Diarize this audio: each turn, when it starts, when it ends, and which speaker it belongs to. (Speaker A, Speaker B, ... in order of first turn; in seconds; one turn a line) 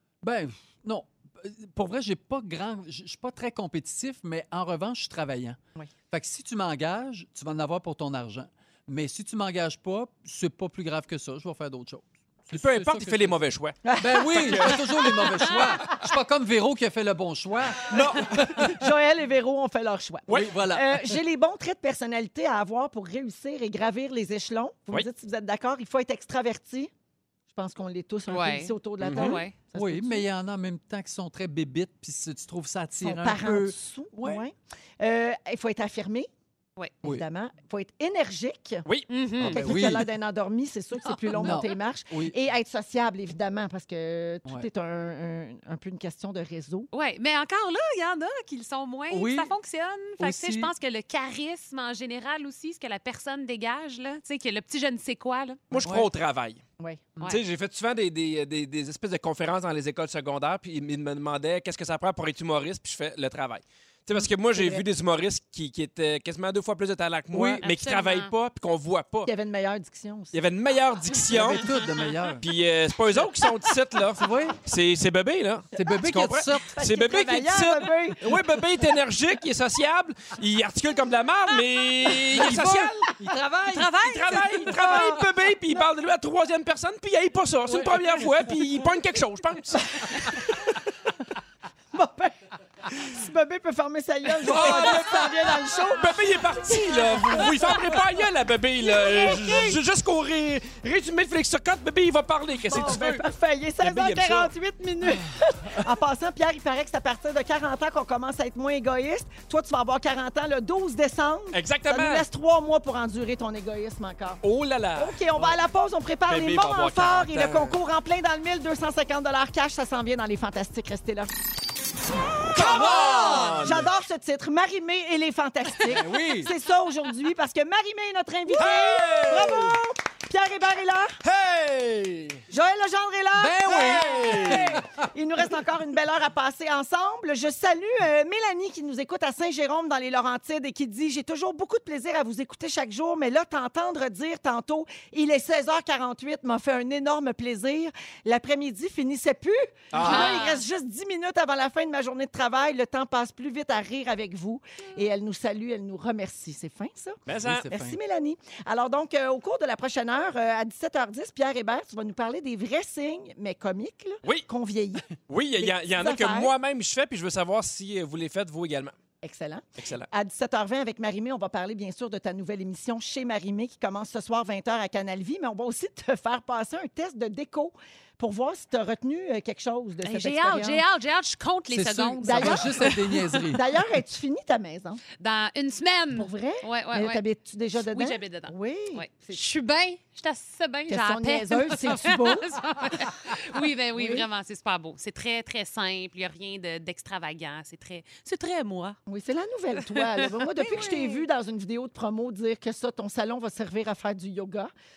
Speaker A: 0.2-5.6
Speaker A: 6.1-13.4
Speaker B: 12.5-15.1
Speaker C: 13.8-15.6
Speaker A: 13.9-18.8
Speaker B: 17.9-18.7
Speaker C: 18.5-26.9
Speaker A: 20.3-21.2
Speaker C: 27.5-30.2
Speaker D: 28.3-29.5
Speaker B: 29.0-29.4
Speaker A: 29.7-34.4
Speaker C: 33.0-36.3
Speaker C: 37.0-38.8
Speaker B: 38.8-39.9
Speaker D: 39.1-39.6
Speaker A: 39.4-40.1
Speaker C: 39.4-46.9
Speaker D: 41.3-41.7
Speaker A: 41.3-42.3
Speaker D: 46.9-55.6
Speaker A: 49.1-49.5
Speaker A: 50.2-50.7
Speaker B: 55.7-56.6
Speaker A: 55.7-56.1
Speaker C: 56.8-57.0
Speaker B: 57.2-69.3
Speaker C: 64.5-64.8
Speaker A: 67.3-67.6
Speaker D: 67.6-68.3
Speaker C: 69.2-70.3
Speaker B: 70.3-71.6
Speaker A: 71.3-72.4
Speaker B: 72.4-83.1
Speaker A: 74.1-74.6
Speaker A: 75.7-76.7
Speaker C: 76.7-78.2
Speaker A: 82.3-85.2
Speaker D: 83.7-84.7
Speaker B: 84.0-90.5
Speaker A: 87.7-88.6
Speaker C: 91.9-92.3
Speaker C: 92.9-97.9
Speaker B: 94.4-103.2
Speaker A: 94.5-94.8
Speaker C: 98.8-99.8
Speaker C: 102.7-114.4
Speaker B: 103.8-104.5
Speaker B: 111.5-112.2
Speaker B: 114.4-115.5
Speaker C: 115.0-121.3
Speaker B: 116.3-117.8
Speaker B: 122.4-123.9
Speaker C: 122.5-131.2
Speaker A: 122.5-123.8
Speaker A: 125.8-126.5
Speaker B: 128.5-129.8
Speaker B: 131.2-132.4
Speaker C: 132.5-165.1
Speaker A: 133.3-135.0
Speaker B: 133.8-134.7
Speaker B: 149.9-150.4
Speaker D: 150.0-150.6
Speaker B: 157.2-157.7
Speaker A: 157.4-158.0
Speaker B: 165.3-168.9
Speaker C: 165.6-166.5
Speaker C: 169.2-180.8
Speaker B: 169.8-170.1
Speaker D: 180.0-183.5
Speaker A: 181.7-183.6
Speaker C: 182.2-182.9
Speaker C: 183.5-185.0
Speaker D: 185.2-187.2
Speaker C: 186.1-189.4
Speaker D: 187.9-199.0
Speaker C: 190.9-192.5
Speaker C: 193.9-194.2
Speaker C: 199.1-204.7
Speaker D: 199.9-201.2